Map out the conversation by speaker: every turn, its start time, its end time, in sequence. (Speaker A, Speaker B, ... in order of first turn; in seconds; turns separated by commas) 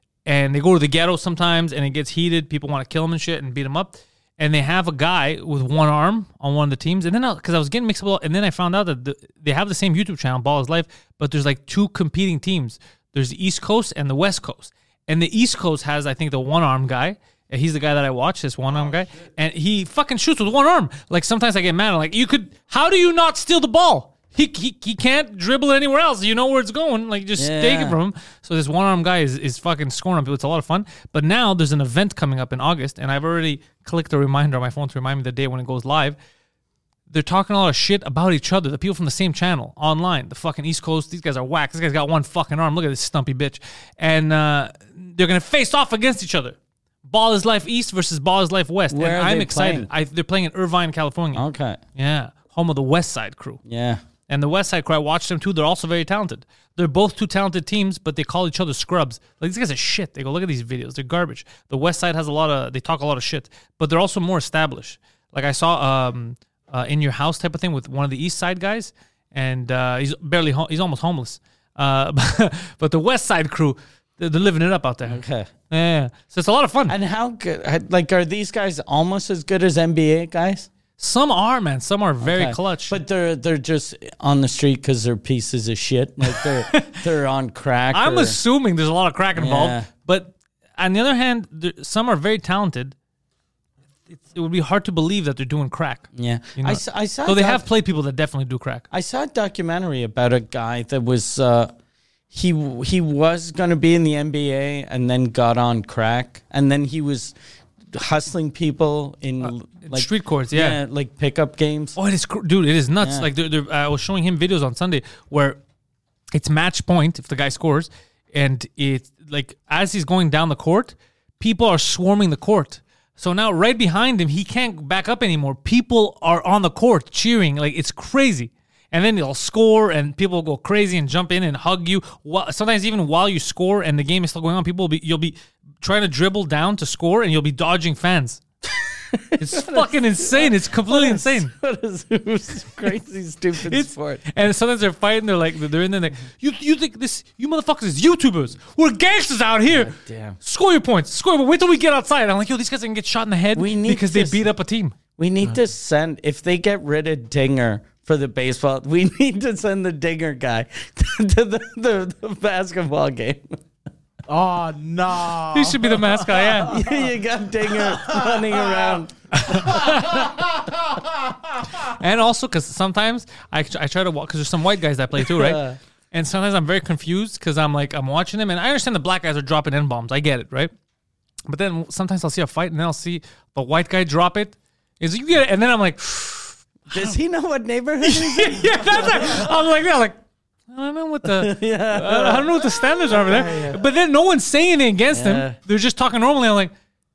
Speaker A: 0.2-36.2, Speaker B: 27.4-28.0, Speaker A: 37.1-51.4, Speaker B: 48.9-49.9, Speaker B: 51.3-51.8, Speaker A: 52.0-53.6, Speaker B: 53.6-54.0, Speaker A: 54.3-76.9, Speaker B: 75.0-75.5, Speaker B: 76.9-80.7, Speaker A: 81.0-83.0, Speaker B: 82.2-88.4, Speaker A: 86.3-87.0, Speaker A: 87.9-92.9, Speaker B: 89.3-89.9, Speaker A: 94.1-98.9, Speaker B: 96.1-97.6, Speaker B: 98.9-101.7, Speaker B: 102.3-107.3, Speaker B: 107.9-112.0, Speaker A: 109.4-110.8, Speaker A: 112.0-115.6, Speaker B: 113.0-113.3, Speaker A: 116.3-138.4, Speaker B: 138.8-144.2, Speaker A: 139.4-141.5, Speaker A: 143.6-154.9, Speaker B: 149.7-150.4, Speaker B: 153.6-154.4, Speaker B: 155.2-163.6, Speaker C: 164.3-166.9, Speaker A: 165.5-166.8, Speaker B: 166.6-170.1, Speaker C: 167.7-171.7, Speaker A: 169.5-170.3, Speaker A: 171.8-180.7, Speaker B: 175.2-175.8, Speaker A: 181.5-187.1, Speaker B: 186.9-189.5, Speaker A: 188.0-190.2, Speaker A: 190.7-196.7, Speaker B: 191.3-193.8, Speaker B: 195.1-195.6